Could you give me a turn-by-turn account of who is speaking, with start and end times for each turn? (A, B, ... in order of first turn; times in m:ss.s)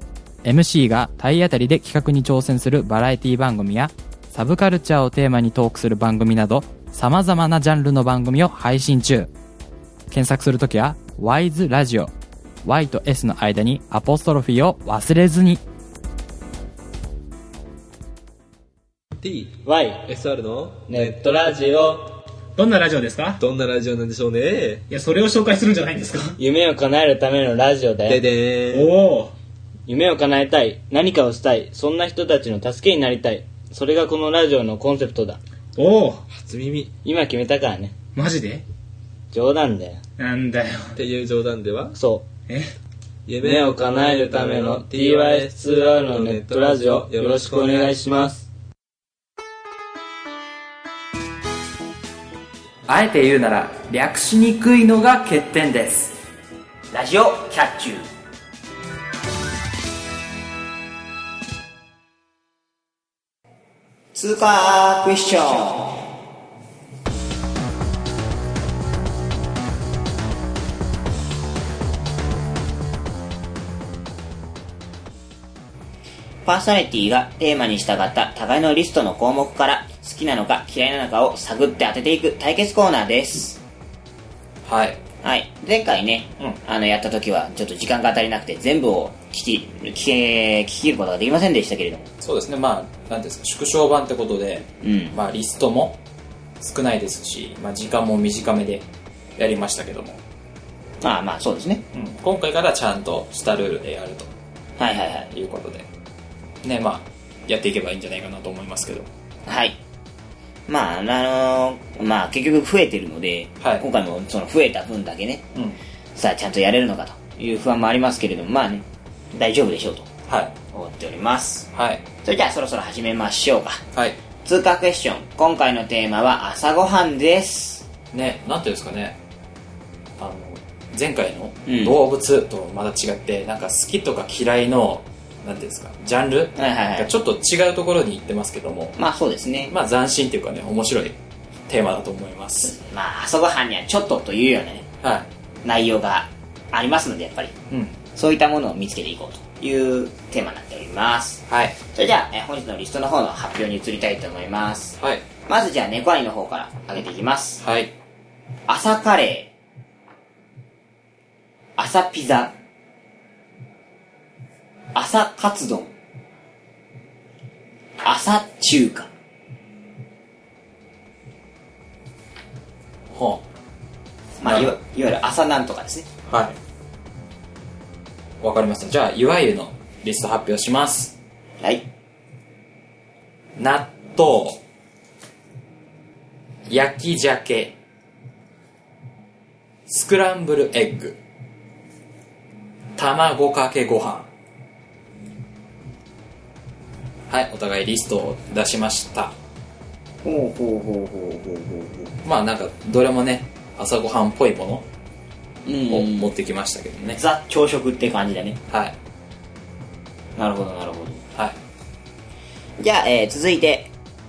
0:00.4-0:09.3 A
0:10.1-0:12.1 A
0:12.6-0:15.6 A
0:19.2-0:21.6 B
0:19.6-0:20.0 C
0:20.9-0:22.2 C
0:22.6-0:23.4 D
0:23.4-0:24.9 B
0:24.9-0:26.4 D
0:26.4-0:28.2 C
0:28.1-0:29.0 B
0:28.7-0:29.3 D
0:29.9-0:35.4 C
0:35.8-0:36.3 D
0:36.4-0:36.9 B
0:37.0-0:38.0 C
0:38.2-0:38.6 D
0:39.3-0:40.0 C
0:40.2-0:41.0 D
0:41.0-0:42.0 B
0:41.9-0:42.3 C
0:42.5-0:42.7 D
0:43.3-0:48.0 B
0:43.4-0:48.4 C
0:52.9-0:56.2 A
0:56.9-0:58.1 E
1:04.1-1:06.0 E
1:16.5-1:23.6 E
1:24.7-1:25.0 A
1:25.2-1:32.1 E
1:32.2-1:36.0 A
1:34.8-1:35.2 E
1:36.6-1:38.8 A
1:39.4-1:40.2 A
1:41.0-1:41.8 E
1:41.9-1:44.3 A
1:44.8-1:45.3 E
1:45.3-1:45.9 A
1:46.6-1:49.1 A
1:49.5-1:49.8 E
1:50.7-1:55.5 E
1:56.2-2:00.1 E
2:00.3-2:00.5 A
2:00.7-2:01.7 E
2:01.7-2:02.0 A
2:02.2-2:03.8 E
2:04.4-2:07.8 E
2:08.1-2:09.2 A
2:10.2-2:19.0 A
2:11.7-2:12.0 E
2:16.6-2:17.1 E
2:19.0-2:19.7 E
2:19.7-2:21.2 A
2:21.7-2:22.8 A
2:22.9-2:24.9 E
2:25.6-2:27.5 E
2:27.7-2:28.0 A
2:28.2-2:37.6 E
2:31.5-2:31.8 A
2:35.0-2:35.2 A
2:37.6-2:37.9 A
2:38.7-2:39.5 E
2:41.8-2:42.5 E
2:44.9-2:45.9 E
2:48.0-2:49.1 E
2:53.1-2:53.4 A
2:54.4-2:56.1 E
2:54.4-2:54.8 A
2:56.3-2:56.6 A
2:58.4-3:01.1 A
3:03.6-3:04.6 A
3:06.7-3:07.7 A
3:09.9-3:11.2 A
3:13.0-3:14.3 A
3:17.3-3:19.3 A
3:20.2-3:22.2 E
3:22.2-3:24.8 A
3:25.7-3:26.3 E
3:25.9-3:27.2 A
3:27.2-3:28.6 E
3:30.4-3:31.2 E
3:32.8-3:33.9 E